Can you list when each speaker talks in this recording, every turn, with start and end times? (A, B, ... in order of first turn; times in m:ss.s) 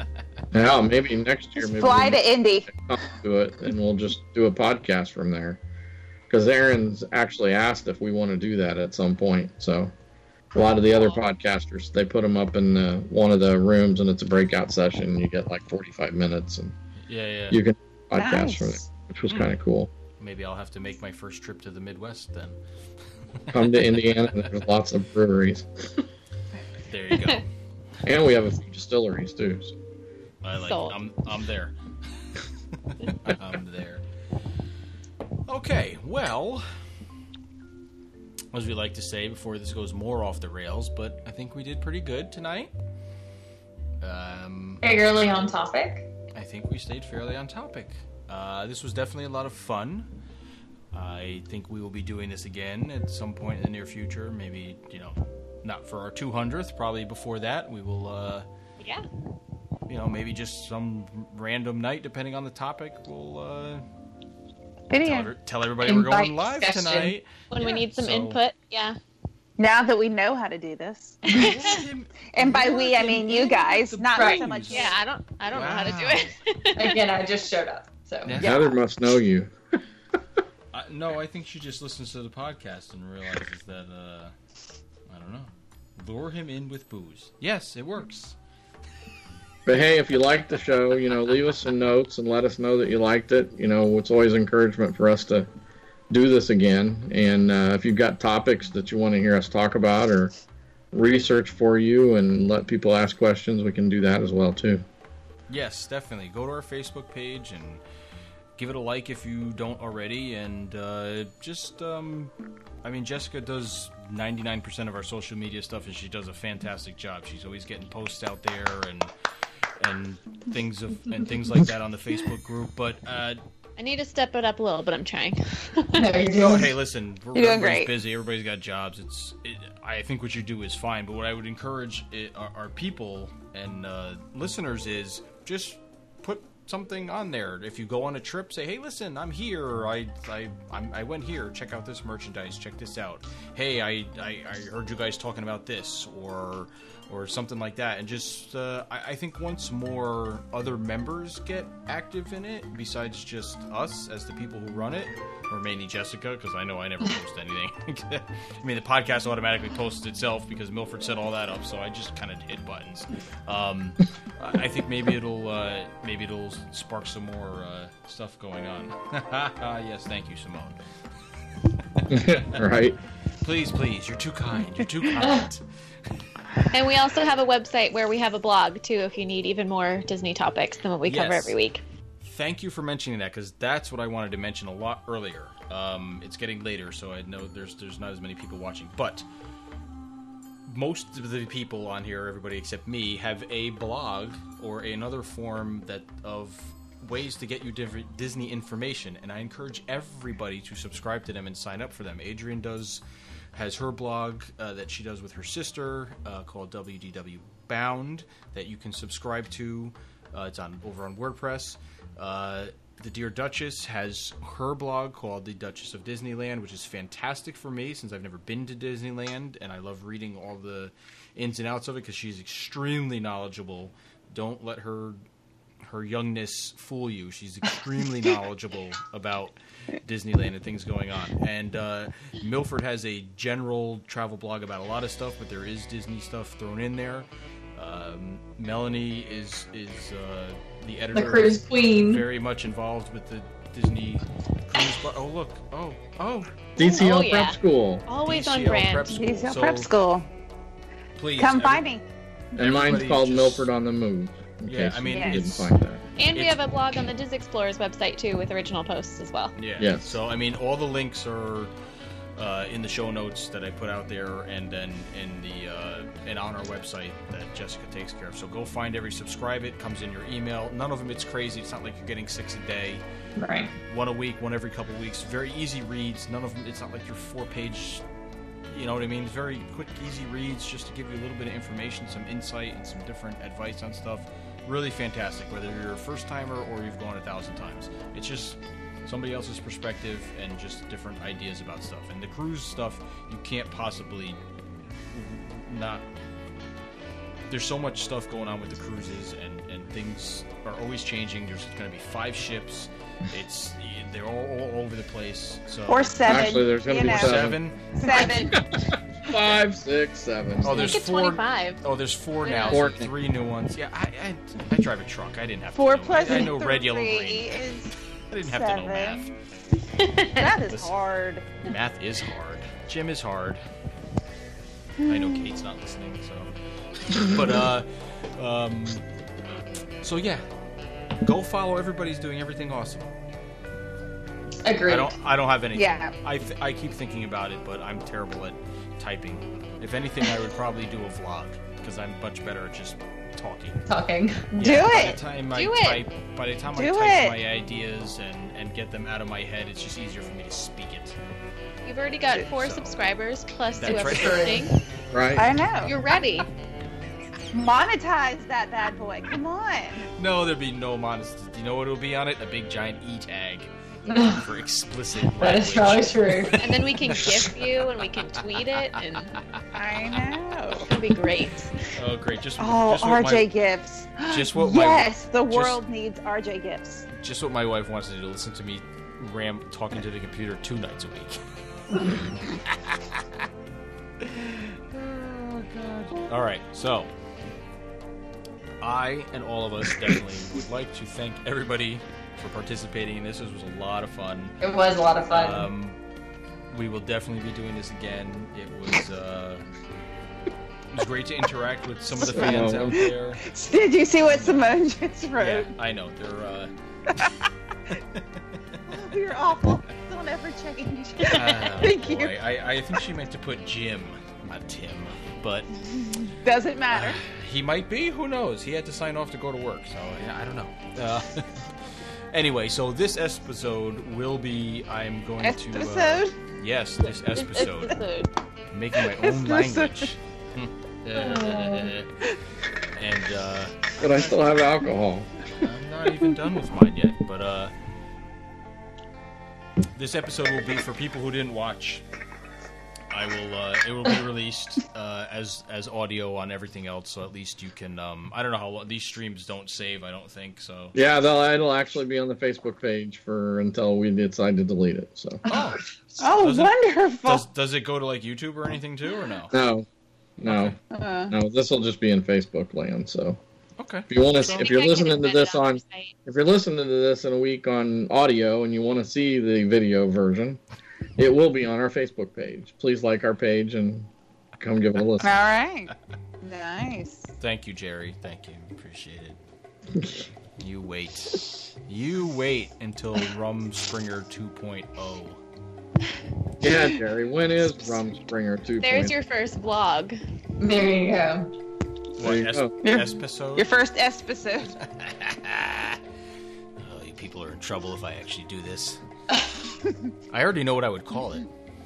0:00.5-0:05.6 A
0:01.6-0:02.7 B
0:06.3-0:09.9 A
0:10.5-0:16.8 A
0:17.1-0:17.6 C
0:17.5-0:19.9 A
0:18.2-0:18.9 B
0:20.2-0:22.6 C
0:23.5-0:23.8 C
0:23.5-0:25.7 A
0:26.9-0:27.5 C
0:28.0-0:29.7 A
0:30.4-0:31.8 C
0:30.6-0:31.0 D
0:32.9-0:34.0 C
0:35.5-0:36.7 C
0:38.5-0:42.7 C
0:44.0-0:44.8 C
0:44.8-0:46.1 E
0:46.3-0:50.1 C
0:50.9-0:58.5 C
0:59.9-1:03.8 C
1:04.9-1:05.3 B
1:05.0-1:08.4 C
1:05.8-1:07.1 E
1:07.5-1:09.0 D
1:09.6-1:11.4 B
1:11.3-1:11.7 D
1:11.3-1:14.9 C
1:12.3-1:15.0 B
1:14.2-1:14.5 E
1:14.7-1:17.0 D
1:15.5-1:16.4 C
1:16.8-1:18.4 E
1:18.2-1:18.7 C
1:18.4-1:18.7 B
1:18.4-1:19.5 A
1:20.7-1:24.3 C
1:25.1-1:28.4 C
1:29.7-1:35.5 A
1:36.1-1:40.3 A
1:40.9-1:44.8 A
1:45.5-1:47.8 C
1:48.6-1:52.3 C
1:52.8-1:59.1 C
1:59.8-2:03.4 C
2:03.8-2:06.1 D
2:06.0-2:06.8 E
2:06.3-2:50.8 C
2:07.4-2:07.9 B
2:52.0-2:52.6 C
2:52.1-2:53.0 A
2:53.4-2:55.6 C
2:55.2-2:55.5 E
2:56.7-3:01.8 D
3:01.0-3:01.6 C
3:02.2-3:09.3 C
3:10.7-3:23.0 C
3:23.5-3:45.2 C
3:45.8-4:06.6 C
4:01.1-4:02.2 E
4:06.8-4:09.2 D
4:06.8-4:08.0 A
4:08.2-4:09.9 C
4:09.1-4:10.3 B
4:11.2-4:11.9 C
4:11.4-4:12.0 B
4:12.6-4:13.7 C
4:12.6-4:16.0 A
4:14.7-4:15.7 C
4:15.1-4:15.4 B
4:16.2-4:19.6 D
4:16.3-4:16.6 C
4:19.6-4:21.7 C
4:19.8-4:20.2 A
4:22.4-4:33.0 C
4:33.4-4:33.8 E
4:33.9-4:38.0 C
4:38.7-4:54.4 C
4:55.1-4:56.0 C
4:57.5-5:08.5 C
5:05.9-5:07.4 B
5:06.3-5:07.6 A
5:08.0-5:08.6 B
5:08.0-5:08.5 D
5:09.2-5:11.0 A
5:10.6-5:17.6 C
5:10.7-5:11.8 D
5:12.4-5:12.8 D
5:12.7-5:13.1 A
5:15.8-5:19.3 B
5:18.3-5:19.4 C
5:20.0-5:20.5 D
5:20.4-5:21.6 B
5:20.7-5:21.0 C
5:21.6-5:23.6 C
5:25.0-5:25.5 B
5:25.0-5:26.5 C
5:27.1-5:29.0 C
5:30.0-5:30.4 C
5:31.2-5:33.1 C
5:34.6-5:35.1 E
5:34.9-5:43.8 C
5:35.7-5:36.1 B
5:43.9-5:44.6 E
5:44.6-5:45.2 B
5:44.6-5:51.2 C
5:45.5-5:46.0 D
5:46.7-5:47.4 B
5:51.8-5:54.8 D
5:52.4-5:53.0 C
5:53.8-5:54.6 C
5:53.8-5:54.7 E
5:55.1-5:55.5 A
5:55.4-5:56.0 B
5:55.8-5:56.5 D
5:57.5-6:00.1 B
6:00.2-6:07.6 C
6:04.1-6:04.4 E
6:05.4-6:06.6 E
6:06.6-6:09.3 D
6:09.7-6:10.9 B
6:10.8-6:11.7 D
6:12.0-6:13.5 C
6:12.6-6:17.1 B
6:14.3-6:15.8 C
6:17.1-6:23.3 C
6:24.2-6:27.1 C
6:28.8-6:34.6 C
6:34.6-6:35.7 E
6:35.3-6:36.0 C
6:36.7-6:39.7 C
6:40.9-6:43.4 C
6:42.2-6:45.7 B
6:42.2-6:43.0 A
6:44.2-6:44.8 C
6:45.4-6:47.3 C
6:47.9-6:48.2 C
6:48.9-6:49.8 C
6:48.9-6:52.4 B
6:51.2-6:55.7 C
6:56.0-6:57.2 B
6:56.9-7:01.6 C
7:02.3-7:08.0 C
7:05.4-7:06.4 B
7:07.2-7:08.3 D
7:08.7-7:12.1 C
7:09.1-7:10.1 B
7:11.2-7:11.9 E
7:13.0-7:14.5 C
7:14.0-7:15.7 A
7:15.6-7:17.7 C
7:20.0-7:22.0 C
7:23.1-7:31.0 C
7:31.0-7:35.4 A
7:35.5-7:36.7 C
7:36.2-7:37.5 B
7:37.2-7:39.5 C
7:39.5-7:39.9 A
7:40.4-7:40.8 A
7:40.4-7:40.8 C
7:40.9-7:41.3 B
7:41.3-7:43.4 A
7:43.8-7:44.8 C
7:44.1-7:50.6 A
7:44.4-7:46.1 D
7:51.2-7:55.4 A
7:55.2-7:55.9 B
7:56.4-7:57.3 B
7:57.4-7:59.4 C
8:00.6-8:05.4 C
8:06.6-8:09.2 A
8:08.8-8:10.2 D
8:10.6-8:11.5 E
8:12.2-8:13.8 C
8:12.2-8:12.7 A
8:12.8-8:14.8 B
8:14.8-8:16.0 C
8:16.8-8:19.0 C
8:20.3-8:21.5 C